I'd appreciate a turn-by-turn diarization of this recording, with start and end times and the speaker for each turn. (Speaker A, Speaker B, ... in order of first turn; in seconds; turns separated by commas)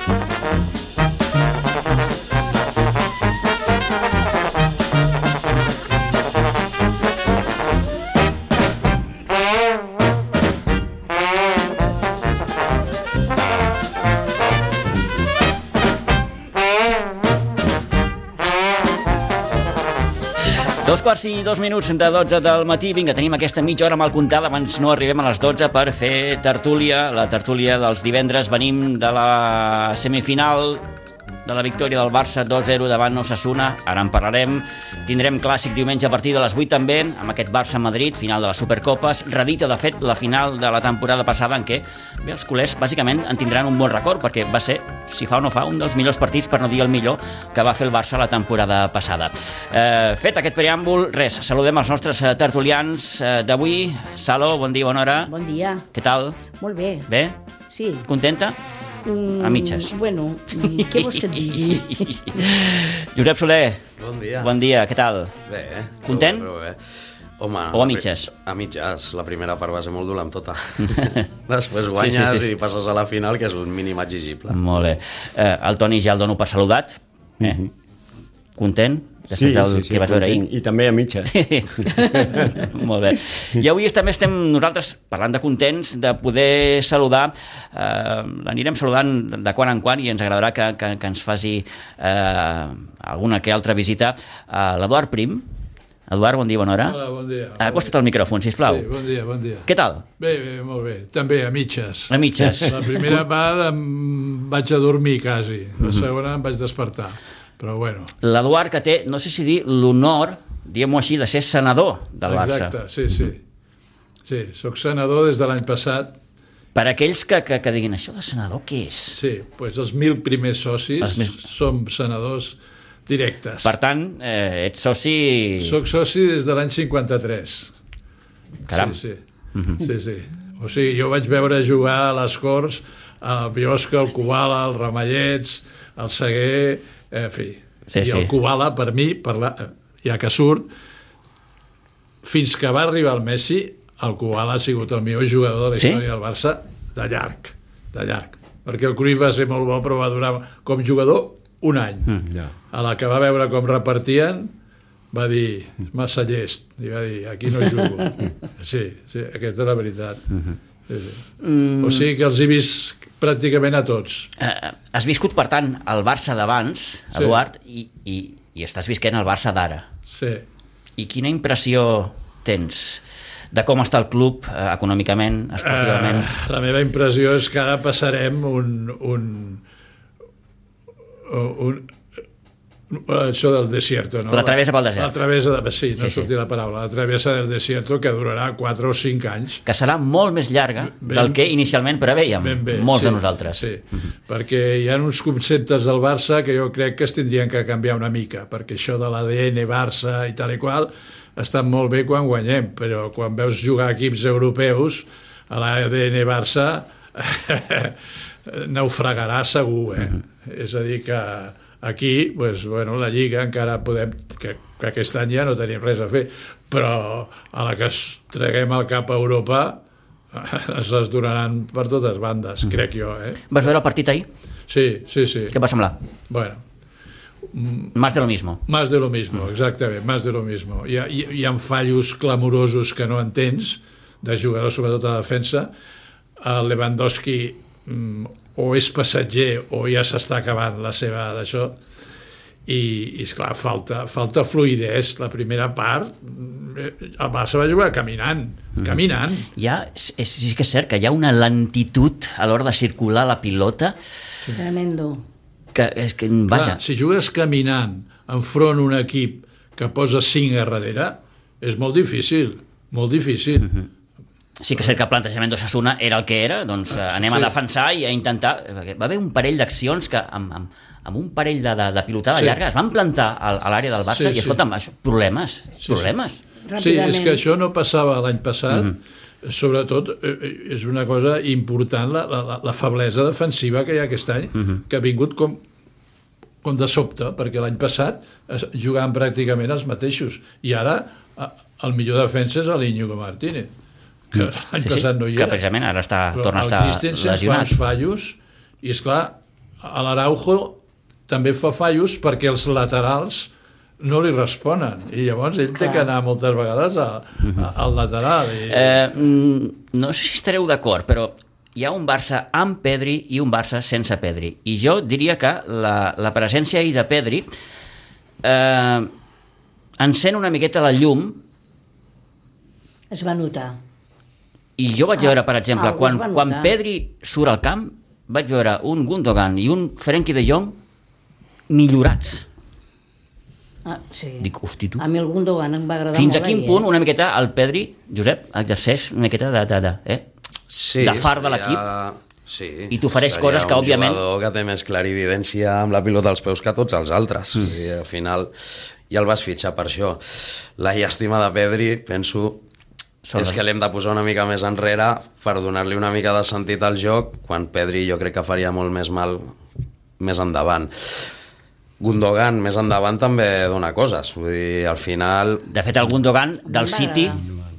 Speaker A: 20.8-30.8, Speaker A: 31.4-55.3, Speaker B: 55.3-55.9, Speaker A: 55.9-56.4, Speaker B: 56.5-57.1, Speaker A: 57.1-57.4, Speaker B: 57.7-58.1, Speaker A: 58.0-58.6, Speaker B: 59.0-62.6, Speaker A: 59.4-60.0, Speaker A: 60.5-63.8, Speaker C: 64.0-64.5, Speaker A: 64.4-65.3, Speaker C: 65.5-74.6, Speaker A: 66.0-66.5, Speaker A: 67.7-68.3, Speaker A: 70.8-71.2, Speaker A: 72.0-72.5, Speaker A: 74.5-77.6, Speaker D: 77.4-77.7, Speaker A: 78.6-80.5, Speaker D: 79.3-82.5, Speaker A: 81.3-95.5, Speaker B: 82.1-82.5, Speaker A: 96.1-97.0, Speaker E: 96.8-97.9, Speaker A: 97.6-98.9, Speaker E: 98.6-99.7, Speaker A: 99.7-100.0, Speaker E: 100.2-108.1, Speaker A: 102.1-102.8, Speaker A: 108.2-112.8, Speaker E: 112.3-113.4, Speaker E: 114.3-116.1, Speaker A: 116.8-119.2, Speaker E: 119.2-123.7, Speaker A: 121.0-121.4, Speaker A: 123.6-125.8, Speaker E: 125.6-127.7, Speaker A: 128.7-129.0, Speaker E: 128.7-129.2, Speaker A: 129.6-129.8, Speaker E: 129.8-140.7, Speaker A: 137.9-138.3, Speaker E: 142.2-154.5, Speaker A: 145.8-146.0, Speaker E: 155.1-161.2, Speaker A: 161.5-162.1, Speaker E: 161.8-164.3, Speaker A: 164.4-169.9, Speaker E: 170.1-170.4, Speaker A: 171.0-176.3, Speaker E: 175.6-179.6, Speaker E: 181.3-181.9, Speaker E: 182.9-189.6, Speaker A: 184.3-185.1, Speaker A: 186.0-186.3, Speaker A: 189.7-193.6, Speaker E: 190.9-191.4, Speaker E: 192.4-219.8, Speaker E: 220.3-223.4, Speaker A: 223.5-224.3, Speaker E: 224.7-225.5, Speaker A: 225.5-226.0, Speaker E: 226.3-226.6, Speaker E: 227.5-227.9, Speaker A: 227.9-228.6, Speaker E: 228.7-235.7, Speaker E: 236.4-241.8, Speaker E: 242.7-249.5, Speaker A: 249.6-254.0, Speaker B: 254.6-255.2, Speaker A: 255.7-256.8, Speaker E: 256.5-263.8, Speaker A: 264.6-276.4, Speaker E: 267.0-267.5, Speaker E: 274.1-274.6, Speaker E: 275.9-276.1, Speaker B: 276.7-277.4, Speaker E: 276.8-285.6, Speaker E: 286.6-293.7, Speaker E: 294.3-295.6, Speaker A: 294.8-297.7, Speaker E: 296.3-303.5, Speaker E: 304.0-309.1, Speaker B: 305.8-306.1, Speaker A: 307.4-307.7, Speaker A: 308.7-317.5, Speaker A: 318.4-319.1, Speaker A: 320.0-321.4, Speaker B: 323.1-323.8, Speaker A: 324.8-330.8, Speaker B: 325.2-326.7, Speaker A: 331.7-332.5, Speaker B: 333.9-336.9, Speaker A: 334.4-335.0, Speaker A: 336.1-340.3, Speaker C: 340.7-348.5, Speaker A: 341.0-341.8, Speaker A: 342.9-344.2, Speaker C: 349.1-352.6, Speaker A: 353.2-353.6, Speaker C: 353.4-359.5, Speaker C: 360.2-361.3, Speaker C: 362.0-365.7, Speaker A: 365.7-367.4, Speaker B: 366.7-367.5